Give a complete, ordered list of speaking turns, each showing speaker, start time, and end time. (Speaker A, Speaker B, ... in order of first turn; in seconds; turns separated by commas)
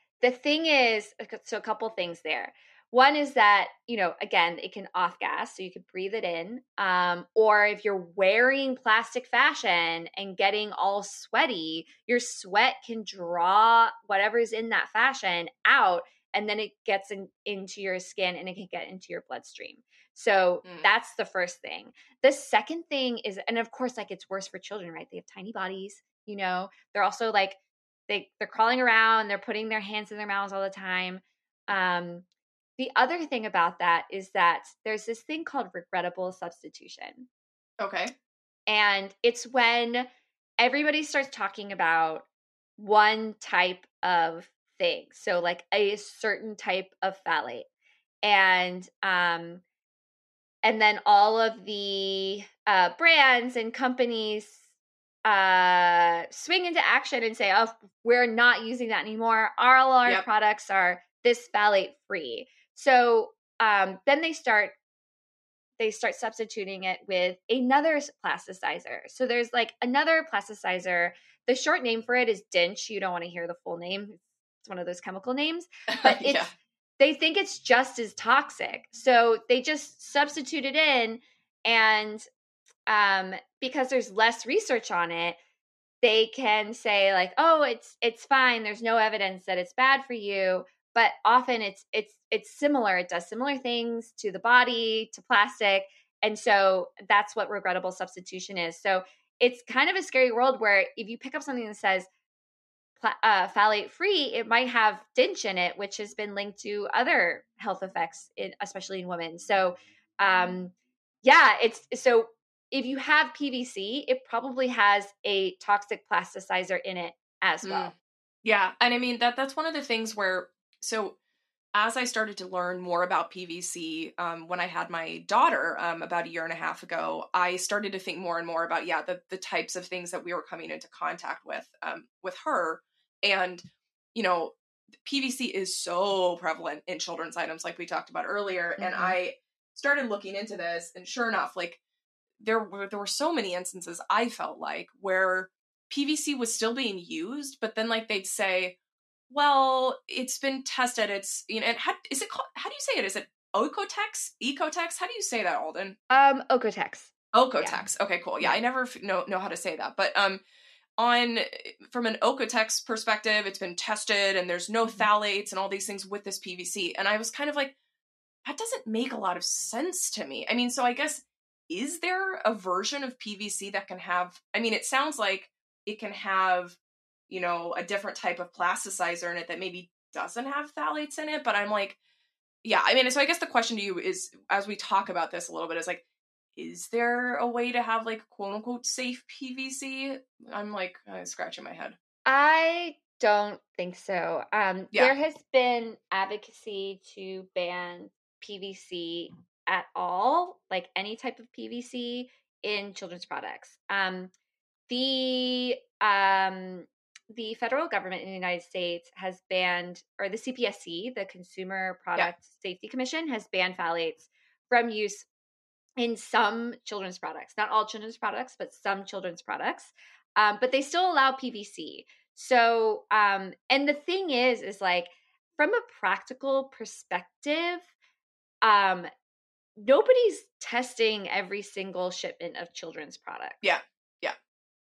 Speaker A: 0.2-27.6, Speaker A: 28.1-32.2, Speaker A: 32.8-37.3, Speaker B: 37.8-38.1, Speaker A: 38.7-40.1, Speaker A: 40.6-42.3, Speaker A: 42.8-47.7, Speaker A: 48.2-49.6, Speaker A: 50.6-54.6, Speaker A: 55.2-64.8, Speaker A: 65.8-76.5, Speaker B: 75.9-76.5, Speaker A: 77.0-82.2, Speaker A: 82.9-85.4, Speaker A: 86.0-102.1, Speaker A: 103.0-117.9, Speaker B: 117.6-117.9, Speaker B: 118.4-121.2, Speaker B: 121.7-134.5, Speaker B: 135.0-141.8, Speaker A: 138.8-139.2, Speaker B: 142.4-148.7, Speaker B: 149.3-156.0, Speaker A: 156.1-157.8, Speaker B: 157.3-160.4, Speaker B: 161.0-167.7, Speaker B: 168.4-176.8, Speaker B: 177.3-182.0, Speaker B: 182.6-186.0, Speaker B: 186.6-191.9, Speaker A: 192.2-204.3, Speaker A: 204.9-215.3, Speaker A: 216.0-227.9, Speaker A: 228.6-229.1, Speaker A: 229.8-233.6, Speaker B: 233.6-234.3